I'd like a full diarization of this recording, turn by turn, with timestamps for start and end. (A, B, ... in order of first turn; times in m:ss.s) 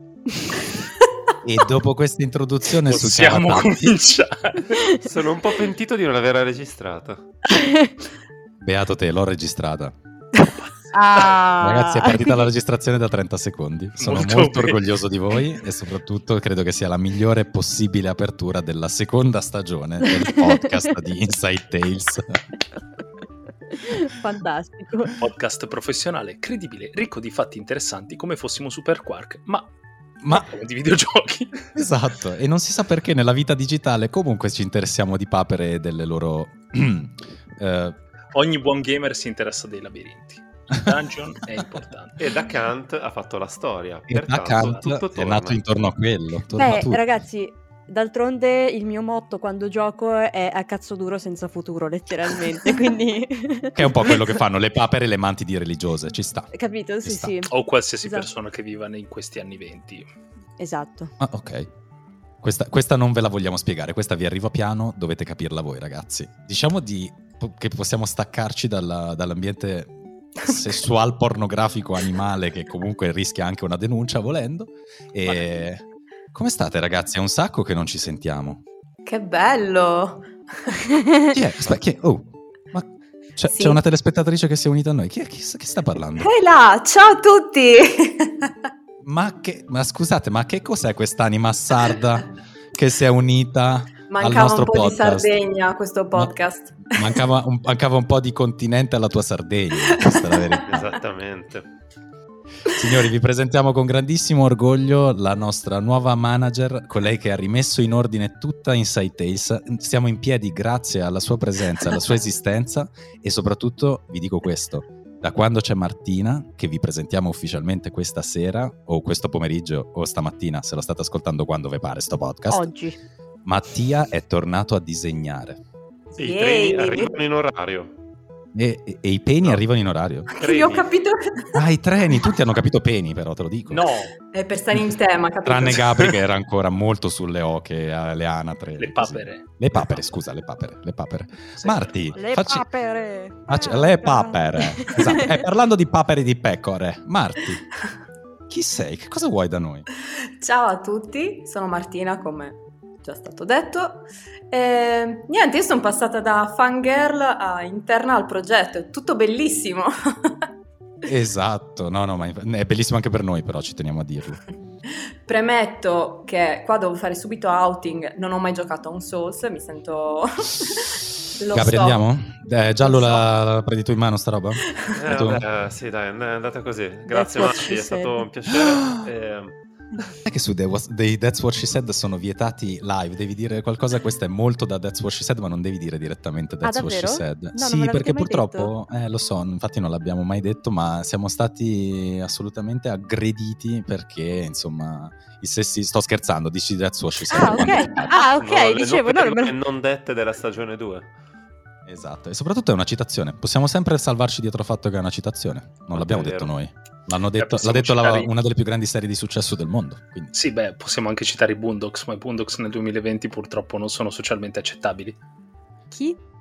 0:01.4-0:03.7 A
0:02.8-0:04.7 B
0:04.9-0:07.2 C
0:07.5-0:07.9 D
0:08.6-0:10.0 A
0:10.9-0:12.4 D
0:11.6-0:22.4 A
0:14.0-0:14.8 B
0:20.0-0:20.9 D
0:23.7-0:25.1 D
0:25.2-0:29.7 B
0:30.2-0:30.5 A
0:30.3-0:31.7 B
0:31.7-0:38.0 A
0:38.3-0:42.2 B
0:42.2-0:45.6 C
0:44.1-0:47.0 A
0:46.5-0:54.1 D
0:53.7-0:56.5 A
0:56.5-0:57.5 D
0:57.0-0:57.4 A
0:57.5-1:00.1 B
0:58.0-0:58.3 D
1:00.6-1:01.1 D
1:01.2-1:01.7 A
1:02.4-1:18.6 A
1:19.0-1:20.8 E
1:21.3-1:26.3 A
1:23.5-1:23.8 E
1:26.2-1:28.5 E
1:29.0-1:35.3 A
1:34.1-1:37.2 E
1:36.9-1:40.8 A
1:40.0-1:40.6 E
1:40.7-1:41.7 C
1:42.6-2:02.7 A
2:02.5-2:03.0 D
2:03.4-2:05.6 A
2:06.2-2:07.9 C
2:06.2-2:07.1 D
2:06.3-2:07.1 E
2:08.5-2:10.3 A
2:10.3-2:11.6 E
2:10.4-2:10.9 C
2:11.5-2:13.9 A
2:13.7-2:14.1 B
2:14.2-2:16.1 E
2:15.4-2:22.7 A
2:18.8-2:20.0 B
2:21.6-2:22.2 B
2:22.1-2:25.4 D
2:23.5-2:27.6 A
2:28.5-2:29.8 A
2:30.4-2:40.4 E
2:41.0-2:44.4 A
2:45.2-2:52.0 E
2:51.5-2:55.5 A
2:52.8-2:53.3 E
2:54.9-2:59.6 C
2:57.1-2:58.2 D
2:58.6-2:59.0 A
3:00.2-3:18.1 A
3:06.6-3:08.7 D
3:17.3-3:19.5 D
3:18.1-3:21.1 C
3:21.8-3:30.3 A
3:25.9-3:26.5 C
3:27.4-3:28.3 B
3:30.3-3:35.2 B
3:35.9-3:36.2 D